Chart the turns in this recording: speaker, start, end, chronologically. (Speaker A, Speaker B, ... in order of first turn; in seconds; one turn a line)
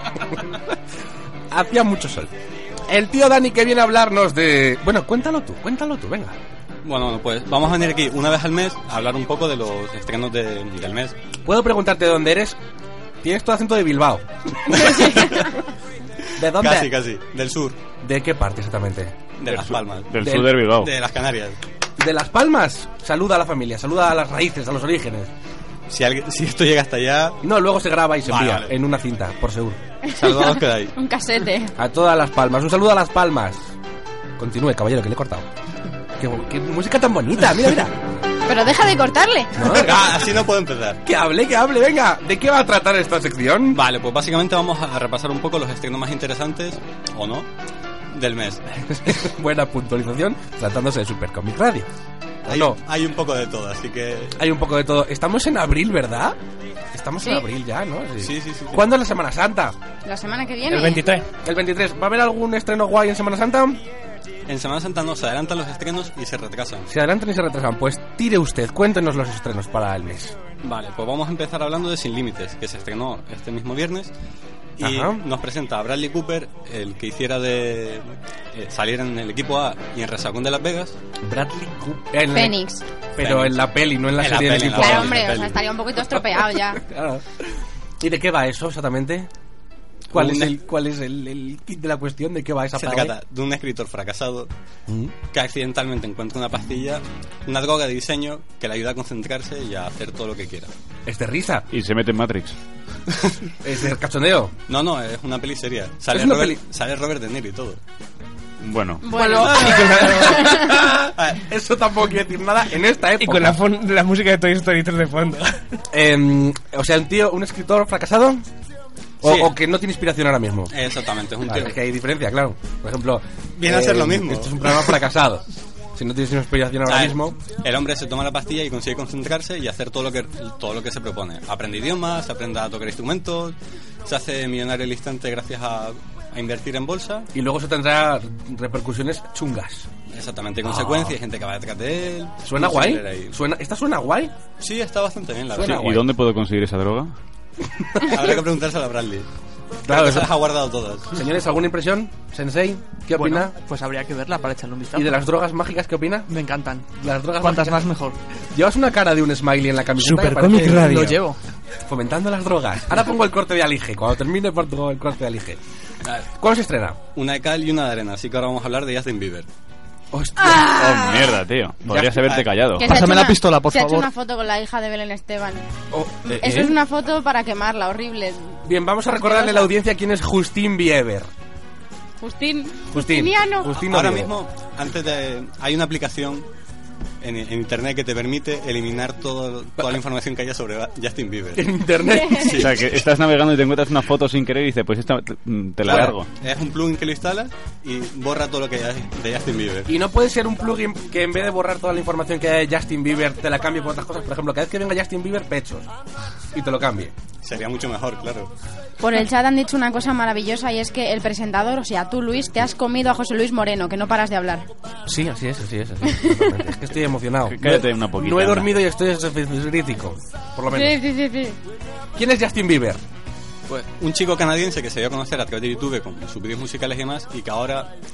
Speaker A: 0.3-0.6
Speaker A: 1.5-2.3
Speaker A: 2.9-6.3
Speaker B: 6.8-11.2
Speaker A: 11.4-12.6
Speaker A: 13.2-15.4
Speaker C: 14.8-15.4
Speaker A: 16.4-16.9
Speaker B: 16.6-17.8
Speaker A: 18.0-19.2
Speaker B: 19.4-20.1
Speaker D: 19.5-20.9
Speaker A: 20.2-20.5
Speaker B: 20.8-21.6
Speaker A: 22.0-25.3
Speaker B: 25.9-27.4
Speaker A: 27.4-29.8
Speaker B: 28.2-28.7
Speaker C: 30.1-31.7
Speaker B: 30.1-30.9
Speaker A: 31.8-33.7
Speaker A: 34.4-35.5
Speaker A: 36.2-38.0
Speaker C: 38.5-39.7
Speaker A: 39.6-40.2
Speaker B: 39.7-41.0
Speaker A: 41.0-43.8
Speaker B: 43.7-47.5
Speaker B: 48.1-48.6
Speaker A: 48.9-51.9
Speaker A: 52.5-52.8
Speaker B: 52.5-54.4
Speaker A: 54.4-56.4
Speaker A: 56.9-59.7
Speaker B: 58.2-58.9
Speaker C: 60.0-61.0
Speaker E: 60.7-61.2
Speaker A: 61.4-63.8
Speaker B: 64.5-66.9
Speaker A: 66.9-70.3
Speaker B: 70.6-74.1
Speaker B: 74.8-80.9
Speaker A: 74.8-75.2
Speaker A: 81.2-82.6
Speaker C: 82.3-82.8
Speaker A: 83.2-85.3
Speaker B: 83.2-85.6
Speaker C: 84.8-86.8
Speaker A: 86.4-87.2
Speaker A: 88.0-89.3
Speaker B: 90.1-90.6
Speaker A: 90.1-93.1
Speaker B: 92.8-94.5
Speaker A: 94.9-95.1
Speaker B: 95.3-100.7
Speaker A: 101.0-101.6
Speaker D: 101.7-102.5
Speaker A: 103.6-104.5
Speaker B: 104.7-107.8
Speaker A: 106.1-106.6
Speaker D: 108.6-109.0
Speaker C: 109.0-110.8
Speaker A: 109.1-113.6
Speaker E: 109.5-110.4
Speaker E: 113.2-115.6
Speaker A: 115.9-118.4
Speaker A: 119.2-120.7
Speaker B: 119.2-119.5
Speaker B: 120.7-121.8
Speaker A: 121.4-125.4
Speaker B: 123.6-125.0
Speaker A: 126.0-127.4
Speaker B: 126.8-137.3
Speaker A: 137.3-139.9
Speaker B: 140.1-143.3
Speaker A: 140.6-141.2
Speaker A: 142.4-144.3
Speaker B: 144.6-145.9
Speaker A: 145.5-146.0
Speaker D: 145.6-147.1
Speaker A: 147.8-148.4
Speaker B: 148.1-149.3
Speaker A: 149.9-150.4
Speaker B: 149.9-151.2
Speaker A: 151.1-153.5
Speaker F: 153.1-155.2
Speaker A: 154.9-156.3
Speaker F: 156.3-158.2
Speaker A: 157.0-157.9
Speaker A: 158.5-161.2
Speaker E: 160.0-161.2
Speaker F: 160.8-161.4
Speaker A: 161.9-165.6
Speaker A: 166.4-167.0
Speaker B: 167.1-169.5
Speaker A: 170.1-171.0
Speaker C: 170.4-171.3
Speaker D: 170.5-173.0
Speaker B: 171.9-172.5
Speaker C: 172.8-175.7
Speaker F: 172.8-174.1
Speaker A: 175.9-176.8
Speaker C: 176.2-178.6
Speaker A: 178.6-181.3
Speaker C: 179.2-179.7
Speaker C: 182.2-183.7
Speaker A: 182.9-184.3
Speaker B: 183.7-186.4
Speaker B: 187.2-191.7
Speaker A: 191.6-192.7
Speaker C: 192.1-192.5
Speaker B: 192.3-192.8
Speaker D: 192.5-196.3
Speaker A: 195.8-196.2
Speaker B: 195.8-199.9
Speaker A: 199.9-205.9
Speaker A: 206.5-207.1
Speaker B: 207.4-208.5
Speaker C: 209.0-214.7
Speaker A: 215.1-221.0
Speaker C: 216.1-216.5
Speaker D: 217.5-218.7
Speaker C: 220.7-221.6
Speaker A: 222.2-223.0
Speaker B: 223.7-227.9